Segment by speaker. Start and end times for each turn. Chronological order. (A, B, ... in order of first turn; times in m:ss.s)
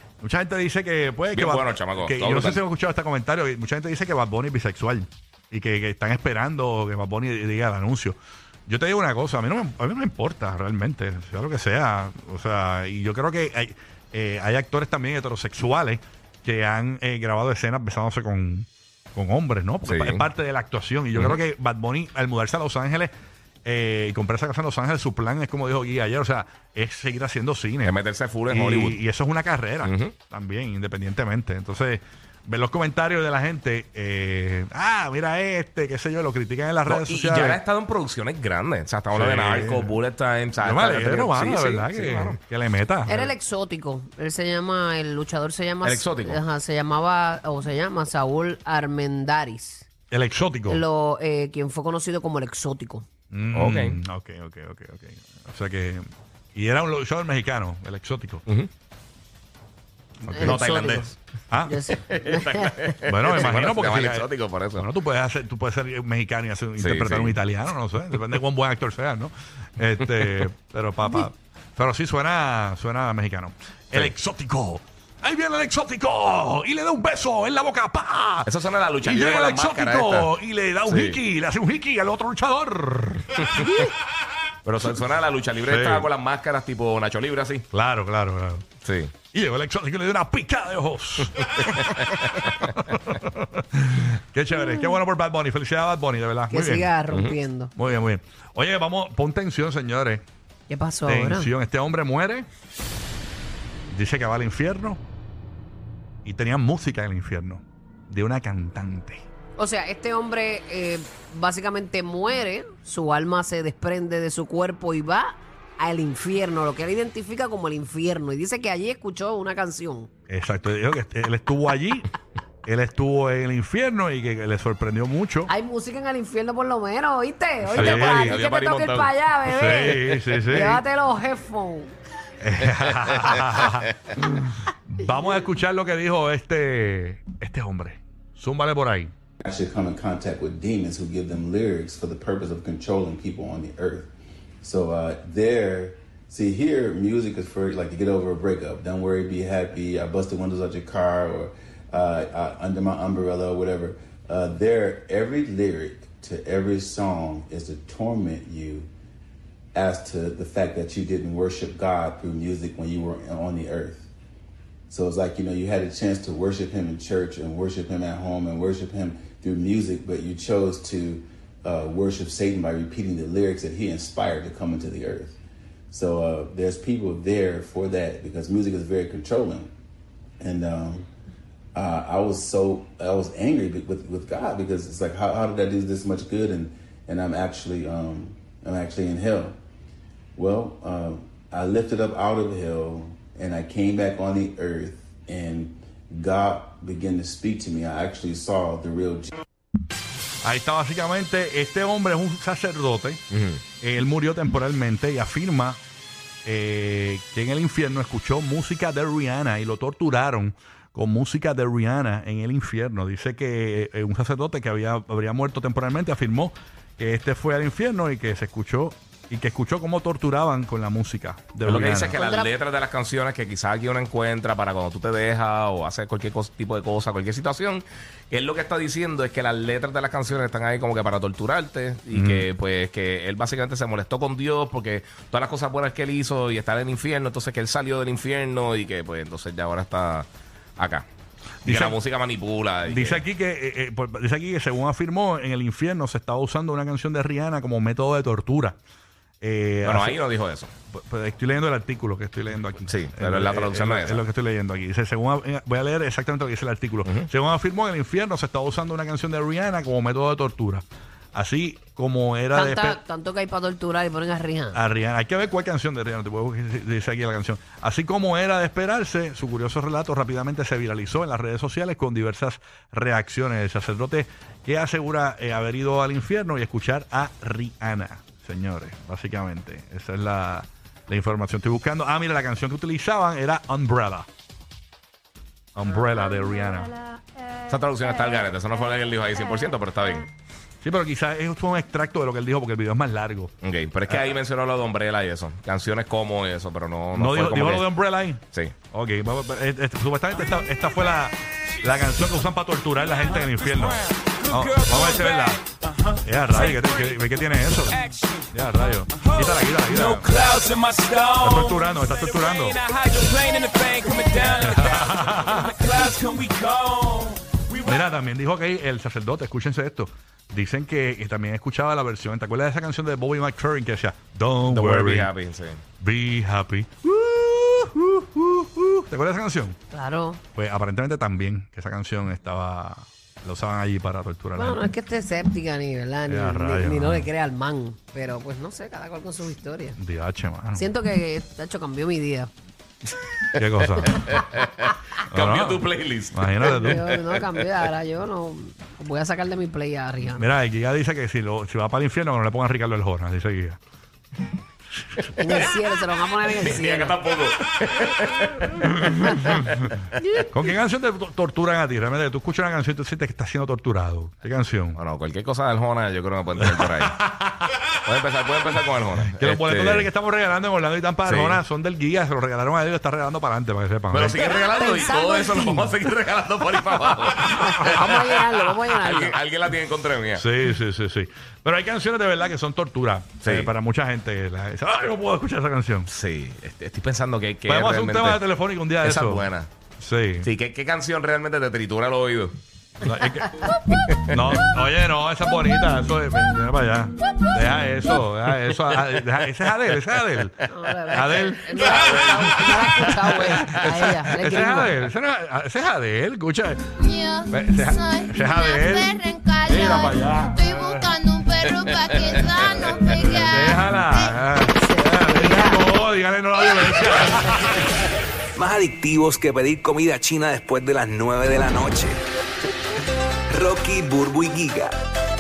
0:00.2-0:23.1 A
0:01.4-0:02.6 B
0:19.8-0:20.2 B
0:23.6-0:28.0 A
0:27.8-0:29.0 B
0:28.5-0:37.6 A
0:29.8-0:30.1 B
0:36.9-0:42.4 B
0:39.1-0:40.0 A
0:40.6-0:43.3 A
0:43.1-0:49.9 C
0:45.8-0:46.4 B
0:50.1-0:50.8 A
0:50.7-0:53.0 C
0:53.3-0:58.4 A
0:53.5-0:54.0 B
1:00.2-1:00.9 A
1:00.3-1:01.1 C
1:00.4-1:01.2 B
1:01.5-1:01.9 A
1:01.6-1:02.8 C
1:02.0-1:04.9 B
1:03.0-1:23.9 A
1:06.8-1:07.4 B
1:18.4-1:20.3 B
1:20.9-1:21.2 B
1:23.4-1:23.6 B
1:24.6-1:27.6 B
1:25.6-1:26.1 A
1:27.7-1:28.6 A
1:28.8-1:29.1 B
1:29.3-1:31.9 A
1:31.7-1:32.7 B
1:32.6-1:36.9 A
1:36.5-1:37.7 C
1:37.7-1:40.2 A
1:40.7-1:41.5 C
1:41.1-1:42.5 A
1:43.9-1:45.0 A
1:46.2-1:49.2 A
1:49.6-2:00.1 C
2:00.3-2:02.1 A
2:02.6-2:05.5 A
2:05.5-2:11.9 C
2:07.6-2:08.4 A
2:07.7-2:09.1 B
2:09.4-2:10.8 A
2:12.4-2:19.1 A
2:12.8-2:13.9 B
2:19.4-2:24.1 D
2:24.6-2:38.9 D
2:39.7-2:44.1 D
2:44.9-2:55.4 D
2:55.9-2:59.7 D
3:00.4-3:01.1 D
3:01.7-3:09.6 D
3:10.4-3:19.3 D
3:20.4-3:23.2 A
3:23.3-3:23.6 B
3:23.8-3:25.8 A
3:26.4-3:42.2 A
3:41.6-4:00.3 B
3:42.1-3:42.5 C
3:52.1-3:52.5 A
4:00.8-4:01.1 B
4:01.6-4:02.0 A
4:01.6-4:03.2 B
4:02.9-4:08.8 A
4:09.4-4:10.2 A
4:09.8-4:10.7 B
4:10.9-4:23.0 A
4:12.9-4:14.2 B
4:22.5-4:24.8 C
4:24.7-4:44.3 A
4:45.7-4:47.0 A
4:47.6-4:50.3 B
4:50.8-4:53.5 A
4:53.6-4:57.9 B
4:54.1-4:54.4 A
4:57.1-5:05.6 A
5:03.3-5:07.3 E
5:06.2-5:08.0 A
5:07.8-5:08.5 E
5:08.5-5:10.3 A
5:09.0-5:18.0 E
5:11.4-5:12.8 A
5:14.6-5:15.8 A
5:17.8-5:25.3 A
5:24.7-5:25.8 B
5:26.0-5:29.8 A
5:29.9-5:30.4 C
5:30.6-5:34.8 A
5:34.6-5:40.0 C
5:36.3-5:37.3 A
5:40.0-5:40.9 A
5:40.8-5:42.5 C
5:43.5-5:44.4 A
5:44.0-5:47.4 B
5:45.3-5:47.1 A
5:46.6-5:50.4 C
5:50.4-5:53.8 A
5:55.0-5:55.3 A
5:55.4-5:57.1 C
5:56.5-5:59.7 B
5:58.8-5:59.9 A
6:00.5-6:05.0 A
6:05.0-6:07.2 B
6:06.6-6:07.8 A
6:08.0-6:10.1 B
6:09.3-6:14.7 A
6:11.2-6:11.6 B
6:14.1-6:20.5 B
6:14.4-6:16.0 C
6:17.5-6:18.2 A
6:17.5-6:19.4 C
6:20.4-6:26.1 A
6:23.4-6:23.7 B
6:26.1-6:28.4 B
6:27.7-6:29.5 A
6:29.0-6:29.7 B
6:30.0-6:30.5 A
6:30.4-6:32.6 B
6:33.0-6:33.7 A
6:33.4-6:33.8 C
6:34.1-6:34.6 B
6:34.3-6:46.9 A
6:40.7-6:45.0 C
6:41.8-6:43.8 B
6:47.0-6:54.3 F
6:47.5-6:51.1 A
6:53.3-6:58.1 A
6:54.7-6:55.8 C
6:58.6-7:02.2 G
7:03.5-7:04.9 G